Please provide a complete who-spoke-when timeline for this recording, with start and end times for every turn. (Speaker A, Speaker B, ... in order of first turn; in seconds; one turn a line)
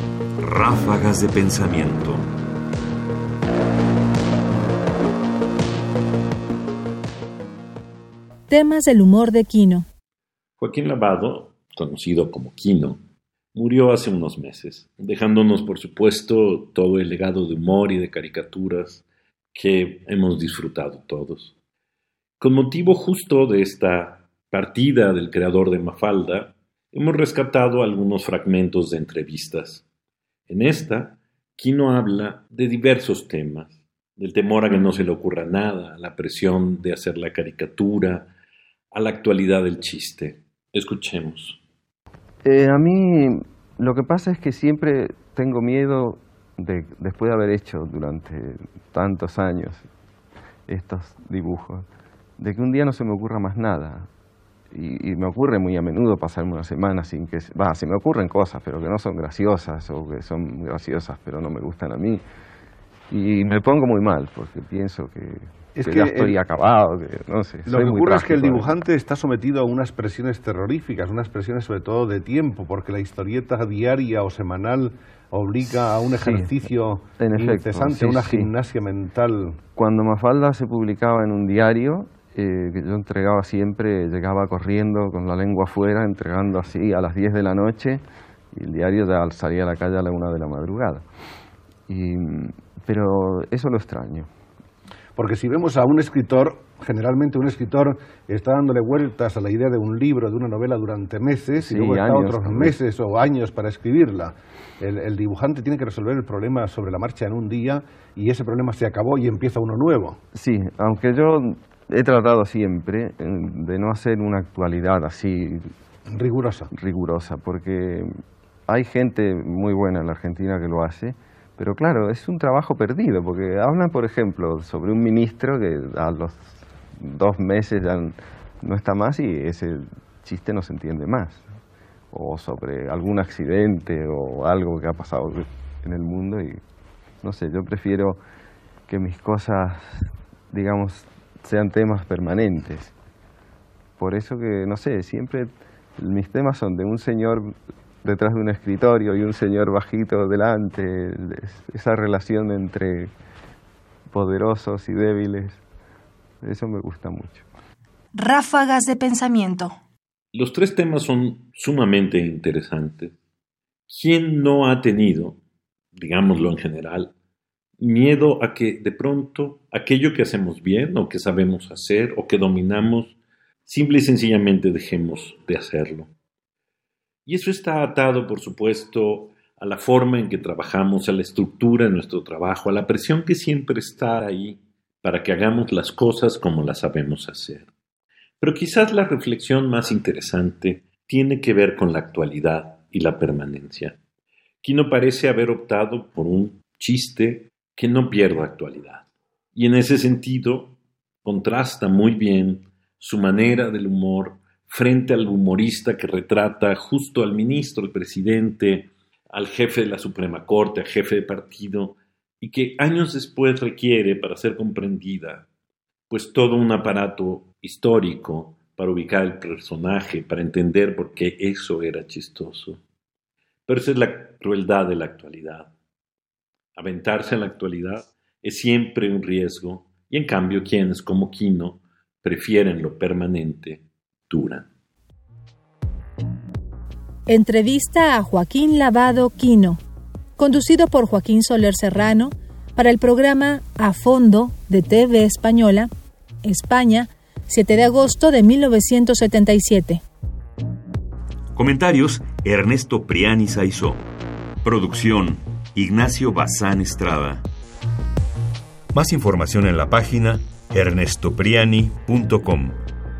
Speaker A: 0.4-2.3
Speaker B: 8.5-9.9
Speaker C: 10.6-13.0
Speaker C: 13.5-21.5
Speaker C: 22.4-29.8
Speaker C: 30.5-38.3
Speaker C: 38.9-41.6
Speaker D: 42.4-49.8
Speaker D: 50.7-51.8
Speaker D: 52.4-54.1
Speaker D: 54.7-62.2
Speaker D: 63.1-68.7
Speaker E: 65.8-66.4
Speaker E: 67.7-79.6
Speaker D: 75.6-78.5
Speaker D: 79.8-88.0
Speaker D: 88.5-91.0
Speaker D: 91.9-94.3
Speaker E: 95.2-110.2
Speaker D: 101.6-102.8
Speaker D: 110.3-115.6
Speaker E: 116.1-116.7
Speaker D: 116.7-118.1
Speaker D: 118.7-131.4
Speaker D: 132.1-136.6
Speaker D: 137.2-138.2
Speaker D: 138.9-142.9
Speaker D: 144.0-153.1
Speaker D: 154.1-155.6
Speaker D: 156.4-157.4
Speaker B: 158.1-159.8
Speaker C: 160.3-163.1
Speaker C: 163.9-165.4
Speaker C: 165.9-167.1
Speaker C: 167.8-176.1
Speaker C: 177.2-187.7
Speaker C: 188.4-194.0
Speaker C: 194.6-215.5
Speaker C: 216.1-222.8
Speaker C: 223.7-225.7
Speaker C: 226.8-234.7
Speaker B: 237.3-239.8
Speaker B: 240.4-245.9
Speaker B: 246.4-250.0
Speaker A: 251.5-254.0
Speaker A: 254.6-257.4
Speaker A: 258.9-262.8